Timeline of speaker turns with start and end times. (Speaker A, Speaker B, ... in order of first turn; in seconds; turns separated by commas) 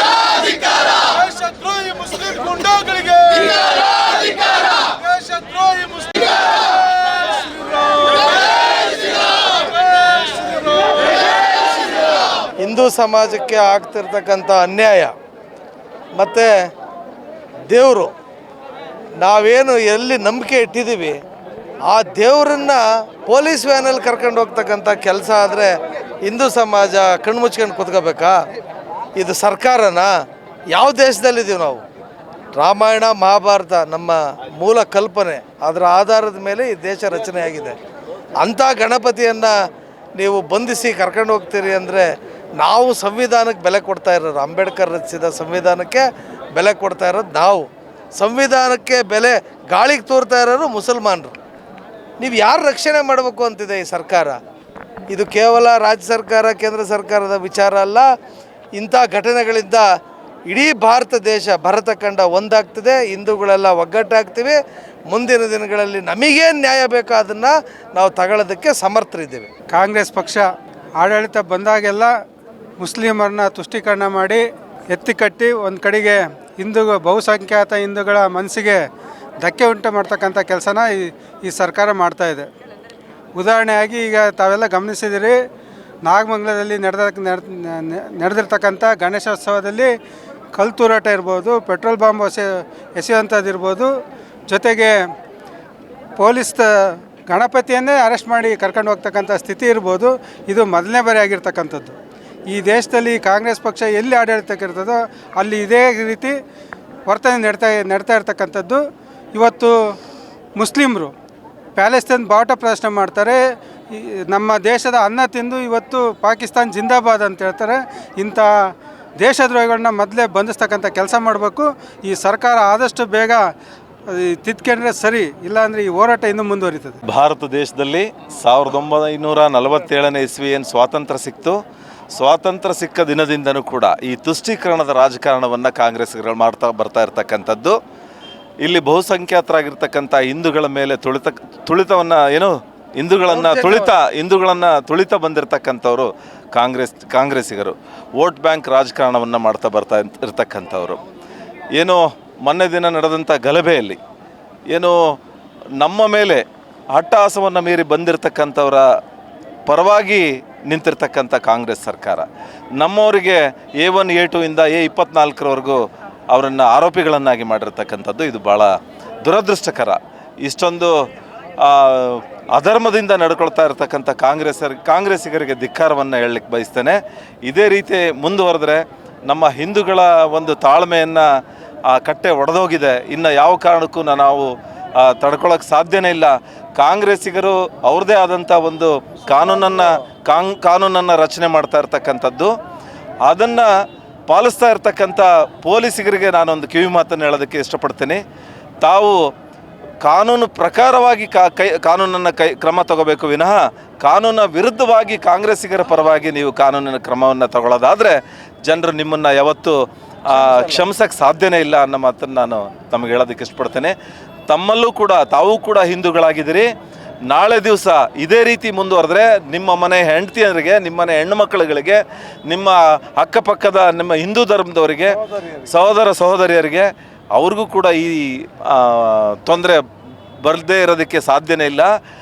Speaker A: 1.1-3.6, Speaker A: 4.9-6.3, Speaker A: 12.6-15.2, Speaker A: 16.1-16.5, Speaker A: 17.7-18.1, Speaker A: 19.2-21.2, Speaker A: 21.9-25.7, Speaker A: 26.2-28.4, Speaker A: 29.2-30.1, Speaker A: 30.7-31.8, Speaker A: 32.5-37.8, Speaker A: 38.4-39.5, Speaker A: 40.2-42.0, Speaker A: 42.6-51.4, Speaker A: 52.2-54.4, Speaker A: 55.1-58.1, Speaker A: 58.8-59.9, Speaker A: 60.5-64.6, Speaker A: 65.1-69.5, Speaker B: 69.7-70.5, Speaker B: 71.0-72.1, Speaker B: 72.8-78.8, Speaker B: 79.4-82.5, Speaker B: 83.3-85.4, Speaker B: 86.0-89.9, Speaker B: 90.5-93.9, Speaker B: 94.5-94.9, Speaker B: 96.2-102.0, Speaker B: 102.5-106.3, Speaker B: 107.1-108.8, Speaker B: 109.3-109.7, Speaker B: 110.6-111.1, Speaker B: 111.8-113.4, Speaker B: 113.9-118.5, Speaker B: 119.2-123.4, Speaker B: 124.1-127.0, Speaker C: 127.1-131.6, Speaker C: 132.1-137.8, Speaker C: 138.6-151.0, Speaker A: 143.3-143.9, Speaker C: 151.8-154.0, Speaker C: 154.7-155.2, Speaker C: 155.8-158.8, Speaker C: 159.7-162.3, Speaker C: 162.8-165.8, Speaker C: 166.3-170.9, Speaker C: 171.6-181.3, Speaker C: 181.9-192.5, Speaker C: 193.2-193.7, Speaker C: 194.3-198.2, Speaker C: 198.8-199.2, Speaker C: 200.0-213.9, Speaker A: 210.3-210.8, Speaker C: 214.5-216.7, Speaker C: 217.3-225.2, Speaker A: 225.3-225.7, Speaker C: 225.7-229.8, Speaker C: 230.4-231.9